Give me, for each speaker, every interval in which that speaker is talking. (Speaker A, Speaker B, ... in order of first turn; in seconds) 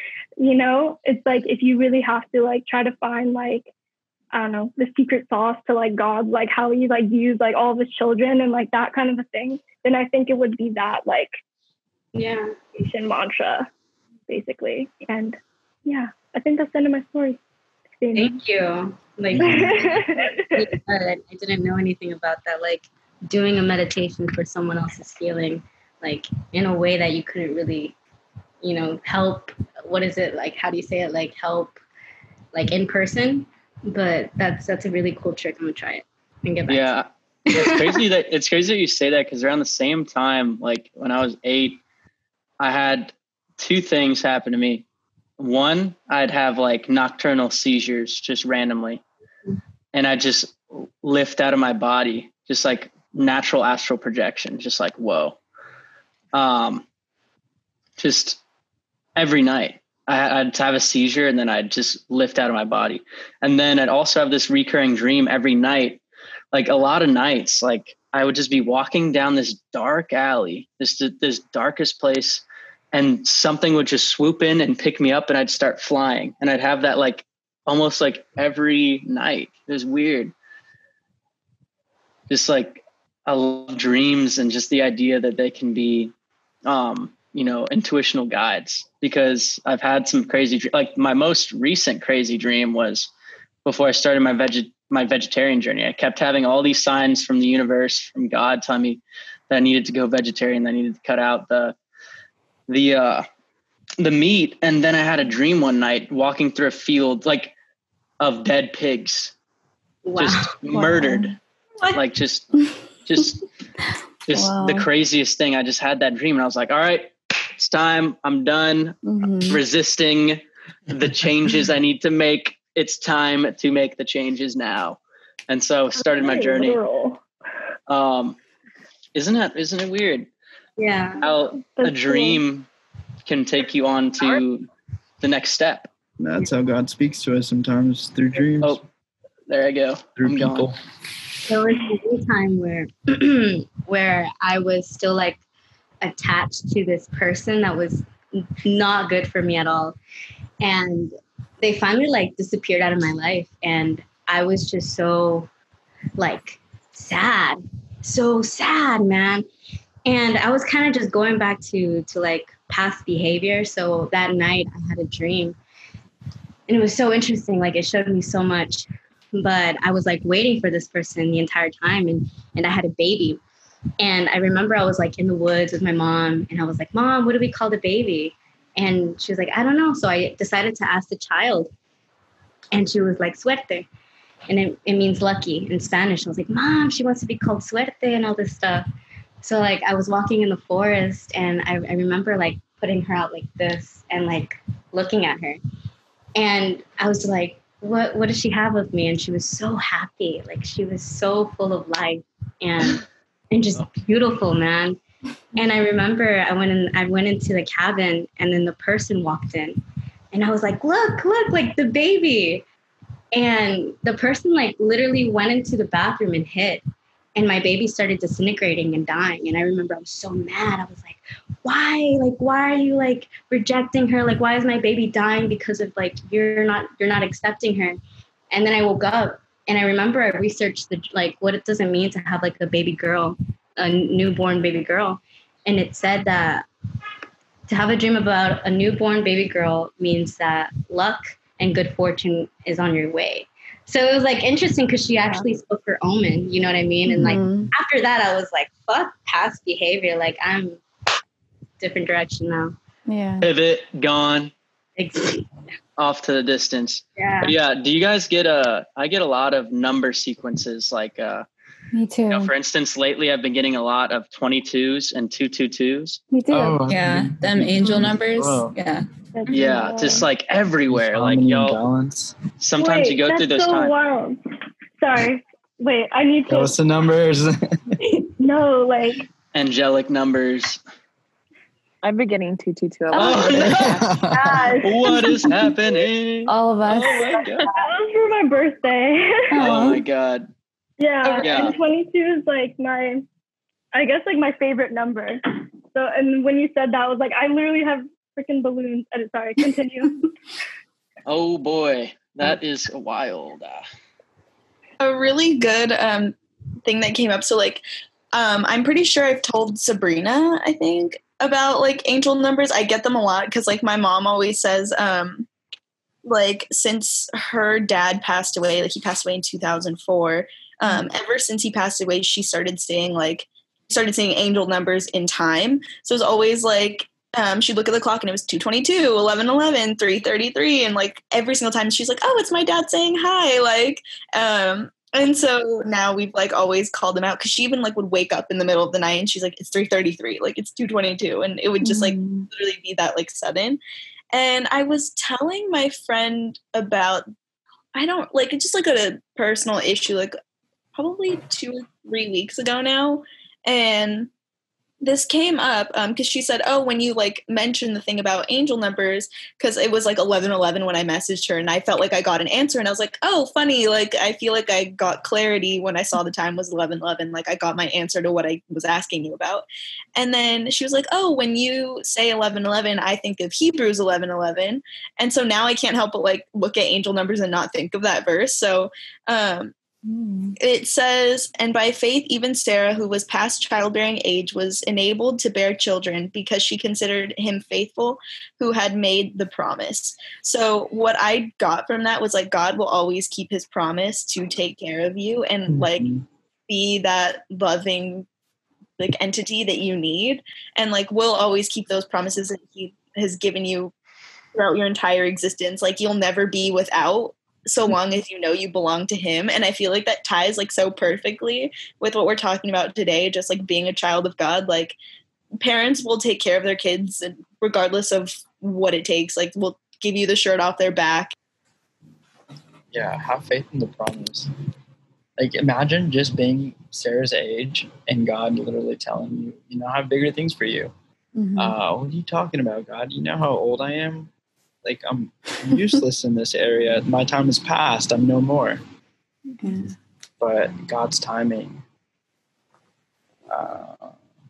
Speaker A: 0.4-3.7, 4.3-11.4, 12.7-13.7, 14.3-17.4, 18.0-18.4, 19.4-20.6, 125.9-127.2, 131.3-132.4, 269.3-270.2, 272.8-274.4, 275.0-276.7, 278.4-279.3, 284.3-285.3, 287.7-289.6, 291.0-293.2, 293.9-300.2
Speaker B: 12.1-12.6, 18.1-27.9, 28.6-31.8, 32.5-38.0, 110.0-111.0, 130.8-131.2, 141.4-145.4, 146.0-148.1, 148.6-149.9, 150.6-155.5, 156.2-159.4, 160.1-165.6, 166.7-173.4, 174.0-181.7, 182.7-183.9, 184.5-188.9, 189.4-195.6, 196.3-205.0, 205.5-212.6, 213.3-216.8, 217.3-228.0, 228.5-236.7, 237.7-250.8, 251.8-252.7, 255.0-255.5, 257.2-257.5
Speaker C: 19.3-19.8, 136.2-138.8, 140.2-140.8, 266.5-268.7, 270.9-272.4, 276.5-278.0, 283.8-284.7, 395.7-396.2, 422.9-424.5, 425.4-430.9, 431.6-434.3, 434.8-438.8, 440.4-441.8, 443.5-444.1
Speaker D: 36.7-41.8, 42.6-44.8, 45.4-49.0, 49.9-55.4, 56.3-56.8, 58.0-58.4, 59.1-66.0, 66.5-80.3, 82.3-86.1, 86.7-93.1, 93.6-101.8, 102.7-103.2, 104.0-107.5, 108.2-109.3, 110.2-111.3, 111.9-113.4, 114.3-126.8, 127.9-128.4, 129.1-130.3, 131.2-132.7, 133.2-134.7, 135.2-135.9, 139.5-140.7, 253.4-254.5, 256.0-261.4, 262.3-266.2, 269.5-271.8, 272.6-273.9, 279.5-280.8, 283.1-284.1, 284.8-287.7, 289.6-290.5, 291.4-291.8, 301.2-303.8
Speaker E: 114.3-114.8, 119.0-119.6, 247.1-247.7, 253.1-253.5, 261.9-262.5, 266.3-266.8, 286.5-287.4, 289.5-290.0, 341.8-342.5, 380.1-380.5, 431.4-431.8, 439.6-439.9
Speaker F: 266.9-269.0
Speaker G: 282.0-284.7, 287.0-287.7
Speaker H: 305.0-315.5, 316.2-343.8, 344.3-347.3, 347.9-350.4, 350.9-354.3, 355.0-379.7, 380.6-396.1, 396.7-398.2, 399.0-403.9, 404.5-415.0, 415.6-421.3